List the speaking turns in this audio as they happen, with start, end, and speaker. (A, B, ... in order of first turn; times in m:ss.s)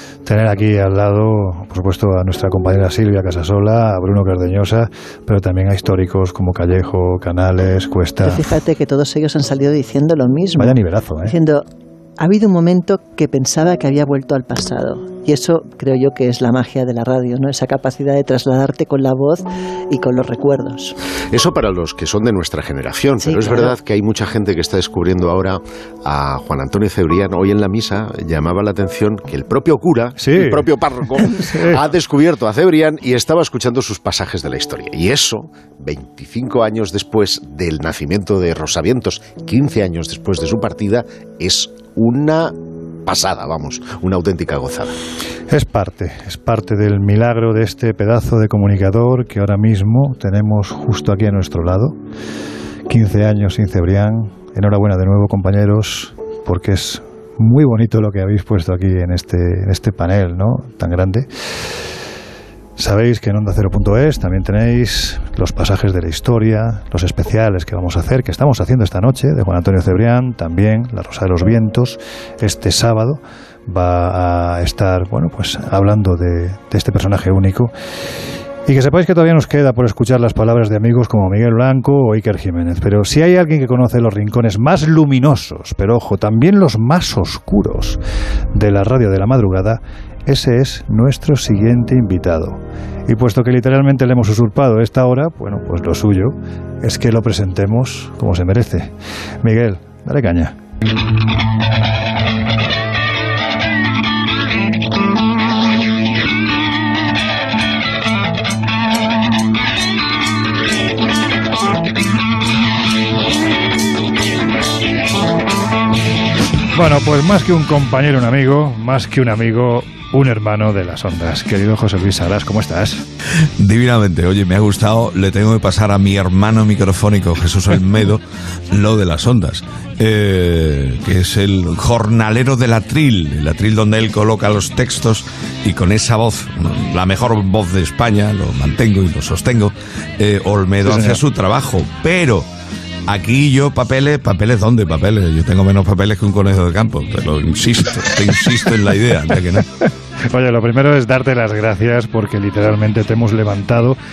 0:00.2-0:08.6 A
0:08.2-0:11.6 B
0:10.6-0:11.4 A
0:12.2-0:21.0 B
0:21.3-0:44.9 C
0:23.2-0:23.8 B
0:30.2-0:31.8 A
0:45.5-0:52.0 A
0:52.9-1:01.3 A
1:02.8-1:17.7 A
1:18.7-1:28.0 A
1:28.5-1:40.6 A
1:56.7-2:03.0 A
2:03.6-2:22.5 D
2:20.8-2:21.2 A
2:23.1-2:29.6 D
2:30.2-2:34.0 A